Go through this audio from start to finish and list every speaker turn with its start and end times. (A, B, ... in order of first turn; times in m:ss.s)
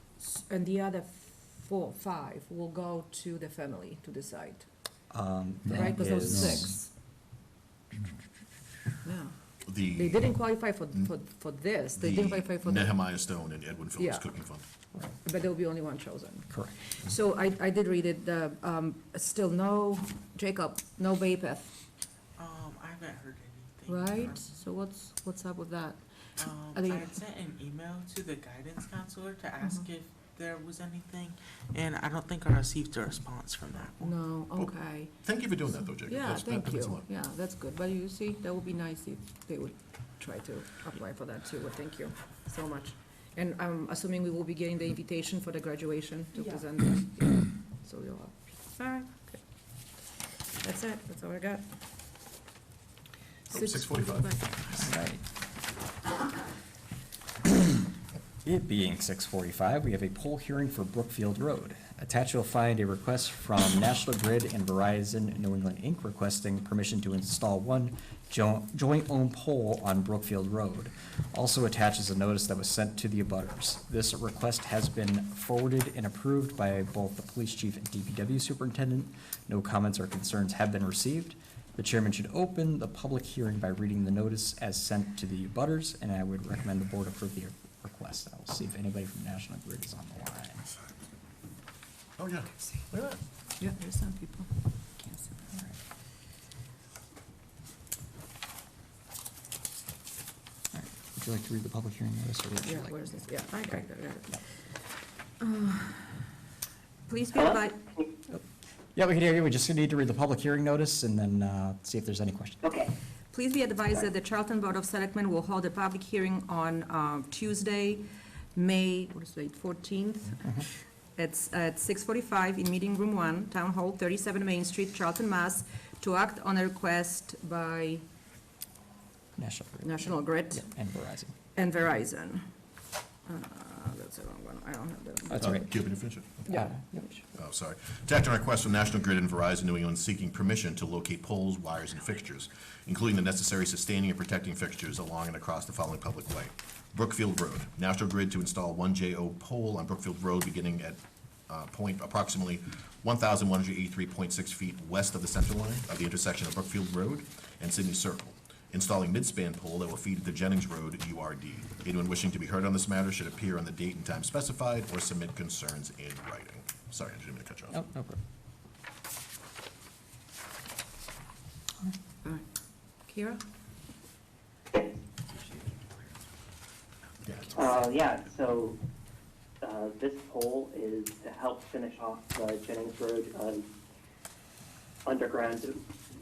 0:00.2-0:04.6 A
0:05.1-0:06.7 B
0:05.7-0:06.9 A
0:09.0-0:12.9 A
0:09.6-0:10.3 C
0:12.0-0:14.6 C
0:14.0-0:14.3 A
0:15.1-0:21.7 A
0:16.5-0:16.7 B
0:22.4-0:24.4 D
0:23.9-0:27.1 A
0:26.4-0:34.1 D
0:34.0-0:35.3 A
0:34.6-0:37.0 C
0:36.0-0:49.4 A
0:50.5-0:51.6 A
0:53.5-0:54.3 C
0:53.5-0:54.8 A
0:54.7-0:55.2 B
0:58.4-1:30.6 B
1:32.2-1:33.2 C
1:33.6-1:35.4 A
1:40.7-1:43.8 B
1:42.6-1:44.4 A
1:45.4-1:46.2 A
1:47.1-1:47.8 A
1:47.3-1:48.0 E
1:48.9-1:52.6 B
1:52.6-1:52.9 E
1:53.3-2:00.6 A
2:01.2-2:08.0 A
2:09.4-2:11.3 B
2:09.8-2:10.7 A
2:11.5-2:12.4 A
2:13.2-2:15.7 A
2:15.3-2:15.6 B
2:15.4-2:16.4 C
2:16.5-2:16.7 A
2:16.5-2:17.2 B
2:17.3-2:47.8 C
2:47.7-2:48.2 B
2:53.0-2:53.4 A
2:57.5-2:58.8 E
2:59.6-3:03.6 E
3:05.1-3:05.8 E